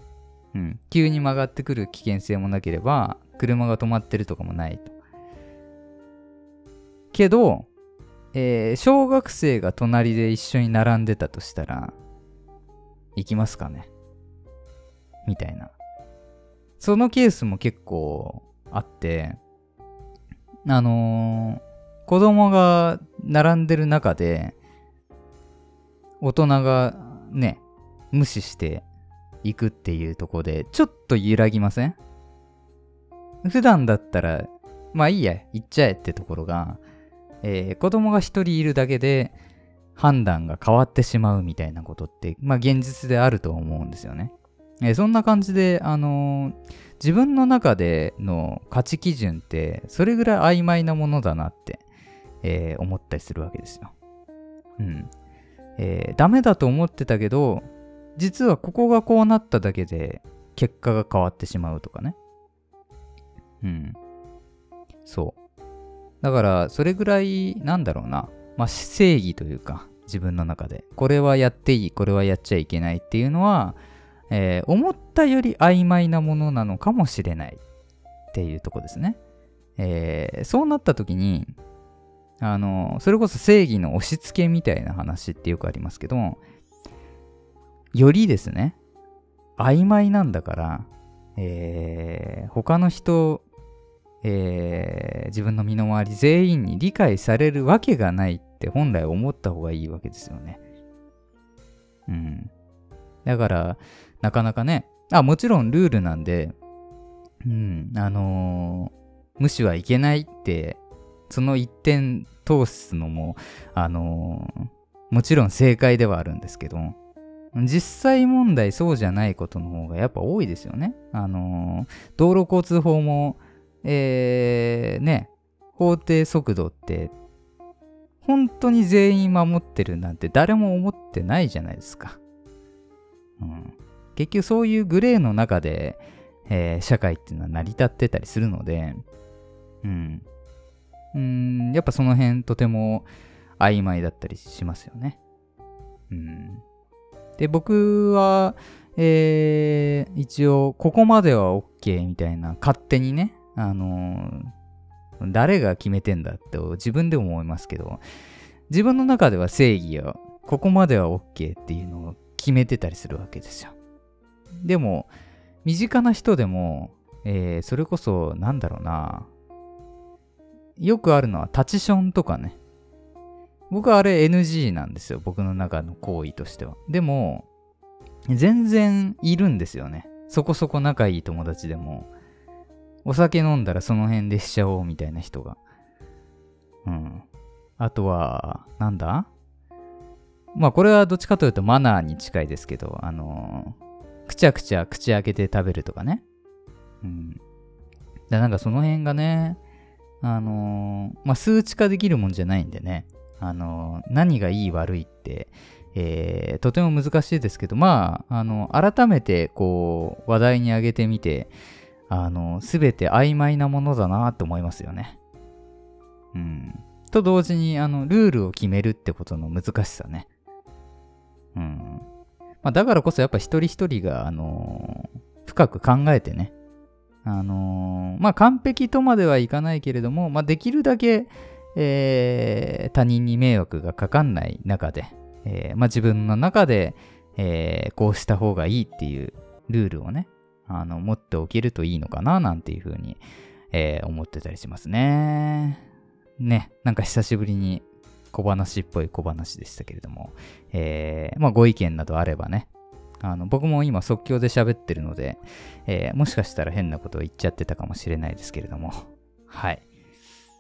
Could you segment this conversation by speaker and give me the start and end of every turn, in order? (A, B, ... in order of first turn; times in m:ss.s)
0:00.5-0:04.9 A
0:07.1-0:07.7 A
0:08.3-0:12.0 A
0:13.2-0:13.9 A
0:15.3-0:15.7 A
0:16.8-0:19.4 A
0:20.6-0:24.6 A
0:26.2-0:27.6 A
0:28.1-0:28.8 A
0:29.4-0:32.0 A
0:33.4-0:36.8 A
0:37.4-0:39.4 A
0:40.0-0:51.8 A
0:52.4-0:53.9 A
0:54.8-0:55.1 A
0:55.8-1:02.2 A
1:03.6-1:04.0 A
1:05.1-1:05.4 A
1:06.2-1:13.8 A
1:14.3-1:17.6 A
1:18.3-1:19.2 A
1:19.8-1:21.5 A
1:22.4-1:26.4 A
1:27.9-1:28.8 A
1:29.6-1:33.4 A
1:34.2-1:40.6 A
1:42.1-1:42.5 A
1:43.2-1:46.6 A
1:47.4-1:57.0 A
1:57.5-2:07.1 A
2:08.2-2:12.2 A
2:13.4-2:19.0 A
2:19.8-2:20.2 A
2:21.1-2:23.1 A
2:23.6-2:25.2 A
2:26.1-2:26.6 A
2:27.4-2:34.5 A
2:35.2-2:38.0 A
2:38.7-2:43.7 A
2:44.6-2:45.1 A
2:45.6-2:49.3 A
2:50.8-2:52.6 A
2:53.7-2:57.5 A
2:58.3-3:02.1 A
3:03.0-3:05.6 A
3:06.8-3:07.2 A
3:07.8-3:09.3 A
3:10.6-3:13.8 A
3:14.3-3:16.2 A
3:17.0-3:17.4 A
3:18.3-3:19.6 A
3:20.2-3:31.5 A
3:32.1-3:35.2 A
3:36.3-3:40.3 A
3:41.6-3:42.0 A
3:42.6-3:46.5 A
3:47.2-4:03.2 A
4:03.7-4:05.8 A
4:06.4-4:12.7 A
4:13.2-4:19.8 A